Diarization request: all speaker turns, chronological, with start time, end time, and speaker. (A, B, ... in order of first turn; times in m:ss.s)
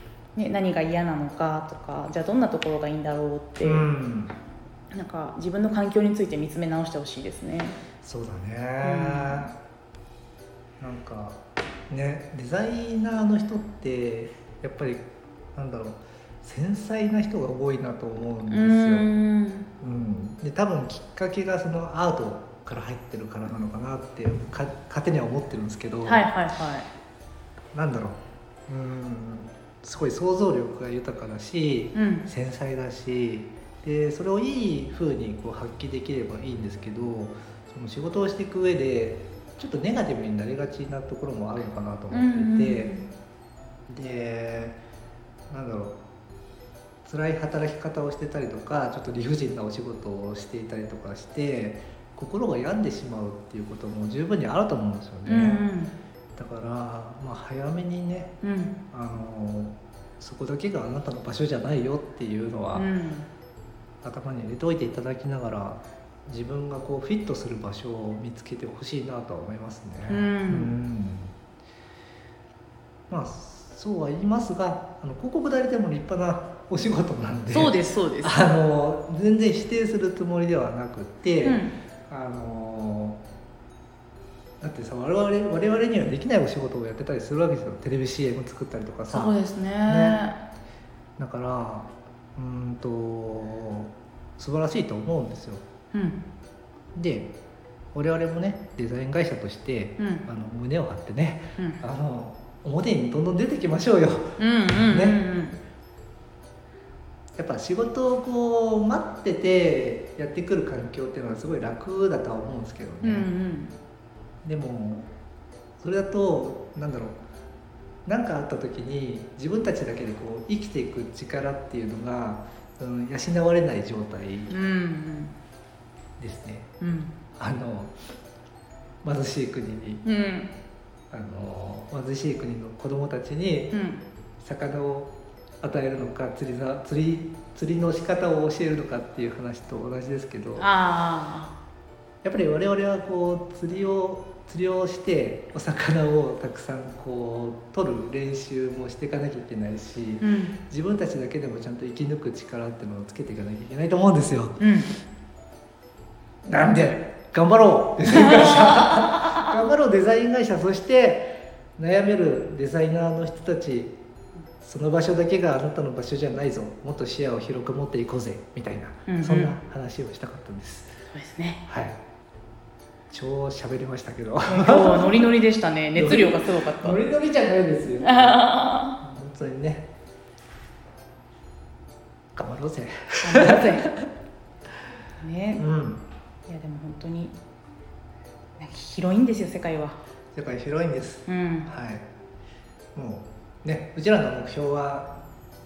0:00.4-0:03.9 A
0:03.6-0:04.4 B
0:04.9-0:07.8 A
0:08.0-0:09.6 B
0:08.8-0:09.5 A
0:10.8-0:11.4 B
0:11.9-0:19.1 B
0:18.5-0:19.7 A
0:19.8-0:26.3 B
0:26.0-0:26.9 A
0:27.7-0:42.9 B
0:32.0-0:32.3 A
0:42.1-0:43.1 A
0:43.9-0:44.8 B
0:45.5-0:46.0 B
0:47.0-0:55.7 B
0:55.3-0:55.9 A
0:56.4-0:58.4 B
0:58.4-0:58.8 A
0:58.9-1:02.9 B
1:02.7-1:03.3 A
1:04.0-1:11.3 B
1:10.1-1:10.7 A
1:13.1-1:23.2 B
1:17.5-1:18.4 A
1:21.4-1:21.8 A
1:24.6-1:30.3 B
1:29.1-1:30.4 A
1:31.2-1:35.6 B
1:35.9-1:36.2 A
1:37.0-1:37.3 B
1:37.9-1:45.2 B
1:40.0-1:40.3 A
1:44.4-1:45.6 A
1:47.4-1:53.3 B
1:53.0-1:53.8 A
1:54.4-1:55.1 B
1:55.8-1:57.2 B
1:58.1-2:04.6 B
2:04.5-2:05.3 A
2:06.2-2:06.7 B
2:06.8-2:07.2 A
2:07.4-2:07.9 B
2:09.0-2:10.0 B
2:10.0-2:10.5 A
2:11.1-2:13.8 B
2:13.7-2:14.0 A
2:14.4-2:20.7 B
2:20.6-2:21.6 A
2:22.2-2:34.6 B
2:30.2-2:30.6 A
2:34.6-2:34.9 A
2:36.5-2:44.0 B
2:38.2-2:39.4 A
2:44.6-2:51.0 B
2:49.1-2:49.5 A
2:51.1-2:51.6 A
2:51.7-2:52.0 B
2:53.1-2:55.3 B
2:54.5-2:57.0 A
2:56.0-2:58.4 B
2:58.0-2:59.0 A
2:59.0-2:59.9 B
3:02.4-3:04.1 B
3:03.2-3:03.9 A
3:05.2-3:05.7 A
3:05.6-3:06.0 B
3:06.5-3:07.4 A
3:08.6-3:10.0 A
3:10.3-3:12.1 B
3:11.3-3:11.7 A
3:13.0-3:15.1 B